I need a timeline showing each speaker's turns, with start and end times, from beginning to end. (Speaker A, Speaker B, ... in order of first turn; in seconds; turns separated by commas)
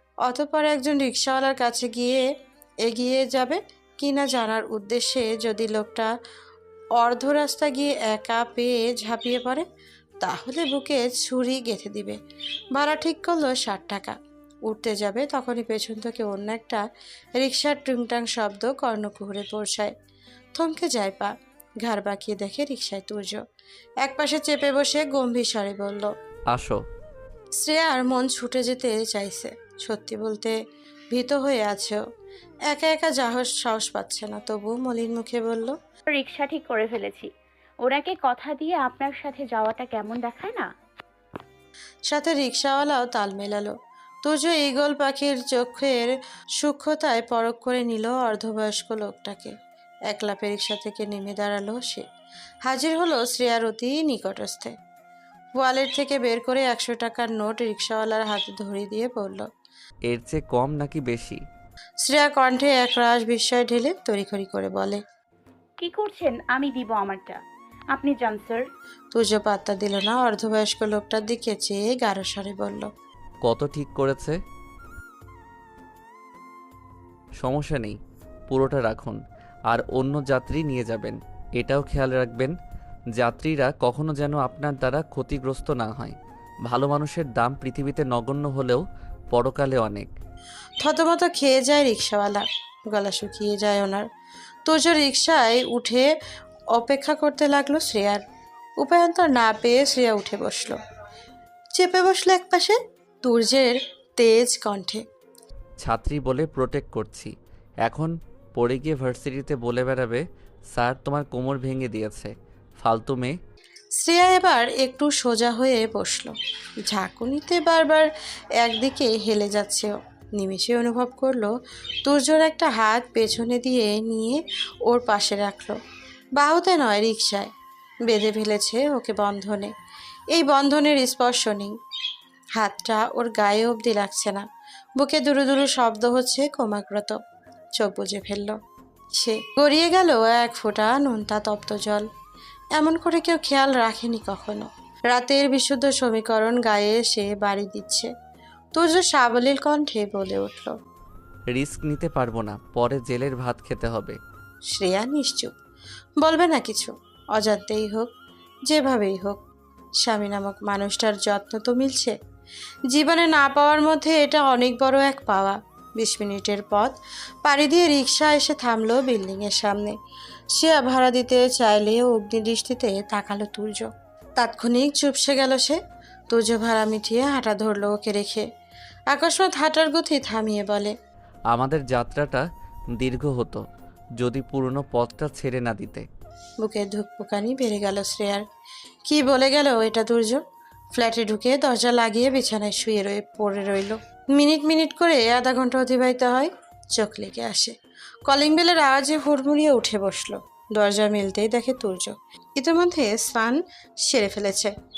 Speaker A: 0.2-2.2, Speaker A: 2.8-6.1, Speaker A: 7.0-9.7, Speaker A: 10.2-12.2, Speaker A: 12.7-14.2, Speaker A: 14.7-16.8, Speaker A: 17.4-19.9, Speaker A: 20.6-23.4, Speaker A: 24.0-26.1, Speaker B: 26.5-26.8, Speaker A: 27.6-30.5, Speaker A: 31.1-32.0, Speaker A: 32.7-35.7, Speaker C: 36.1-37.3, Speaker C: 37.8-40.7, Speaker A: 42.1-46.1, Speaker A: 46.6-49.5, Speaker A: 50.1-52.0, Speaker A: 52.6-54.7, Speaker A: 55.6-59.5, Speaker B: 60.1-61.4, Speaker A: 62.0-65.0, Speaker C: 65.8-67.4, Speaker C: 67.9-68.6, Speaker A: 69.1-72.9, Speaker B: 73.4-74.4, Speaker B: 77.4-78.0, Speaker B: 78.5-79.2, Speaker B: 79.7-82.5, Speaker B: 83.2-86.2, Speaker B: 86.7-90.1, Speaker A: 90.8-94.0, Speaker A: 94.7-96.0, Speaker A: 96.7-98.2, Speaker A: 98.8-100.8, Speaker A: 101.7-105.0, Speaker B: 105.8-107.3, Speaker B: 107.8-113.3, Speaker A: 114.0-116.3, Speaker A: 116.9-118.1, Speaker A: 118.6-121.5, Speaker A: 122.0-125.8, Speaker A: 126.4-127.5, Speaker A: 128.1-129.7, Speaker A: 130.3-131.7, Speaker A: 132.6-134.4, Speaker A: 135.0-137.2, Speaker A: 137.8-138.5, Speaker A: 139.2-142.1, Speaker A: 142.8-148.1, Speaker A: 148.7-150.7, Speaker B: 151.5-154.2, Speaker A: 154.7-155.5, Speaker A: 156.2-158.1, Speaker A: 158.7-159.4, Speaker A: 160.0-162.1, Speaker A: 162.9-166.9, Speaker A: 167.4-169.9, Speaker A: 170.5-175.8, Speaker A: 176.3-178.4, Speaker A: 179.1-180.9, Speaker B: 181.5-182.4, Speaker B: 183.0-183.6, Speaker B: 184.2-186.1, Speaker A: 186.6-188.4, Speaker A: 189.1-190.4, Speaker A: 190.9-197.7, Speaker A: 198.3-204.7